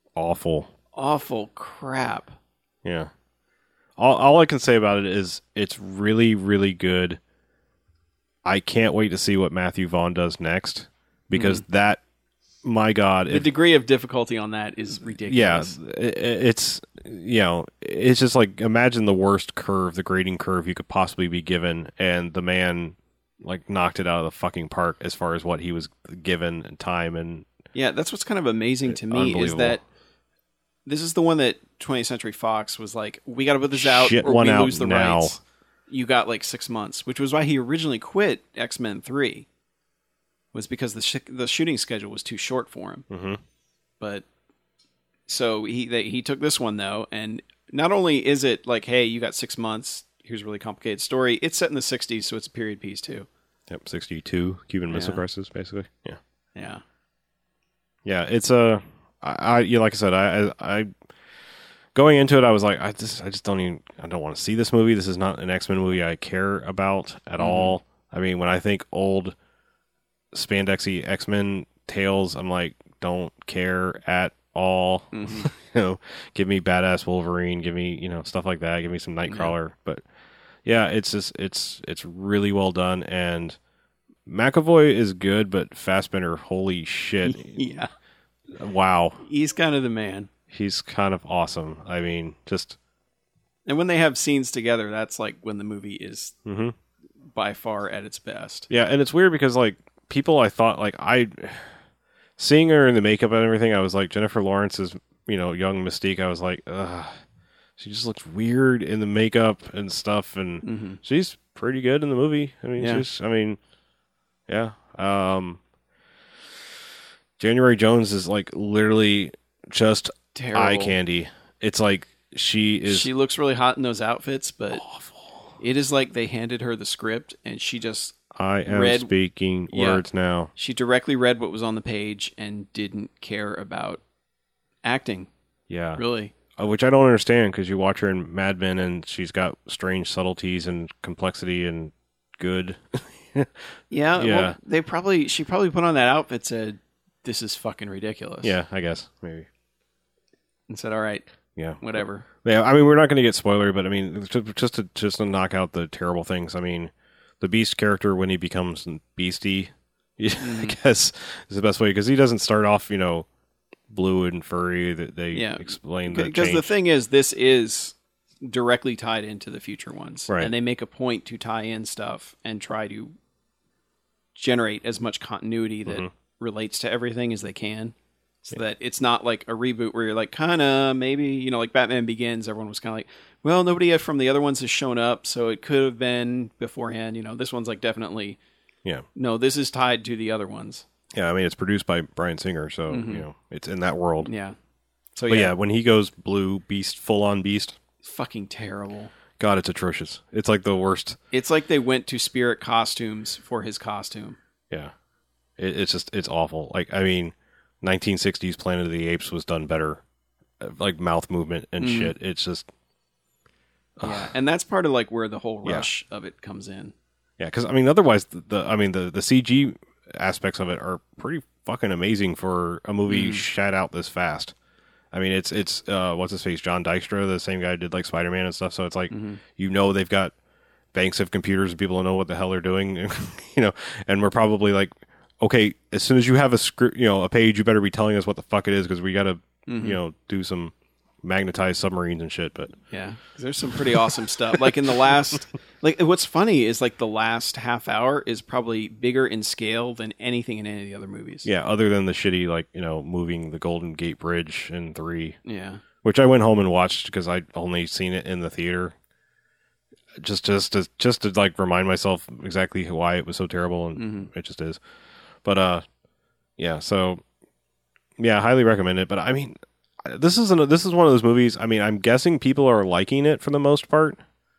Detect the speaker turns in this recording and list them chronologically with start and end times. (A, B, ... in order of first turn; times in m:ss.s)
0:00.2-0:00.7 A
0:00.9-0:02.4 B
0:02.8-0:03.1 A
0:04.0-0:07.2 A
0:08.4-0:12.0 A
0:11.3-0:11.6 B
0:12.6-0:13.5 A
0:13.3-0:15.8 B
0:15.2-0:27.5 A
0:27.7-0:29.8 B
0:28.9-0:29.8 A
0:30.8-0:39.4 B
0:33.8-0:35.4 A
0:40.5-0:43.0 B
0:43.1-0:43.4 A
0:44.0-0:44.2 B
0:45.3-0:53.3 B
0:53.7-0:56.2 A
0:54.9-0:55.2 B
0:56.5-0:56.8 B
0:58.0-1:00.9 A
1:01.9-1:09.4 A
1:07.4-1:07.7 B
1:10.3-1:20.0 A
1:15.1-1:15.5 B
1:19.3-1:19.5 B
1:20.6-1:23.6 A
1:24.2-1:27.6 A
1:27.2-1:27.9 B
1:28.5-1:29.2 A
1:29.2-1:30.3 B
1:30.5-1:32.8 A
1:33.6-1:36.3 B
1:36.4-1:36.7 A
1:37.3-1:38.7 B
1:38.7-1:41.7 A
1:42.4-1:47.2 A
1:47.8-1:53.6 A
1:50.6-1:51.0 B
1:52.8-1:53.0 B
1:54.5-1:55.6 A
1:57.4-2:03.1 A
2:00.3-2:01.0 B
2:02.8-2:04.8 B
2:04.8-2:05.2 A
2:05.6-2:09.1 B
2:08.3-2:10.5 A
2:09.7-2:10.0 B
2:10.6-2:14.0 B
2:14.8-2:15.3 B
2:15.7-2:16.0 A
2:16.0-2:16.3 B
2:16.5-2:23.6 A
2:23.9-2:28.5 B
2:24.2-2:24.6 A
2:28.4-2:29.5 A
2:30.7-2:31.2 B
2:31.6-2:43.2 A
2:31.8-2:32.2 B
2:40.4-2:40.8 B
2:43.9-2:46.7 A
2:45.3-2:53.1 B
2:54.3-3:08.4 B
3:09.1-3:10.8 B
3:11.1-3:14.3 A
3:12.9-3:13.2 B
3:14.2-3:14.6 B
3:15.1-3:15.5 B
3:15.3-3:17.8 A
3:18.0-3:19.1 B
3:19.4-3:21.2 A
3:21.3-3:24.4 B
3:25.6-3:30.0 A
3:30.6-3:32.7 A
3:31.8-3:32.1 B
3:34.0-3:34.3 A
3:34.0-3:36.9 B
3:37.4-3:44.5 A
3:43.1-3:43.4 B
3:45.1-3:50.3 A
3:49.1-3:49.4 B
3:50.9-4:02.8 A
3:59.7-4:00.0 B
4:02.9-4:11.5 B
4:11.4-4:15.4 A
4:15.4-4:15.8 B
4:16.0-4:18.9 A
4:20.2-4:24.8 A
4:24.0-4:24.3 B
4:25.4-4:25.8 A
4:26.6-4:27.2 A
4:28.2-4:34.2 A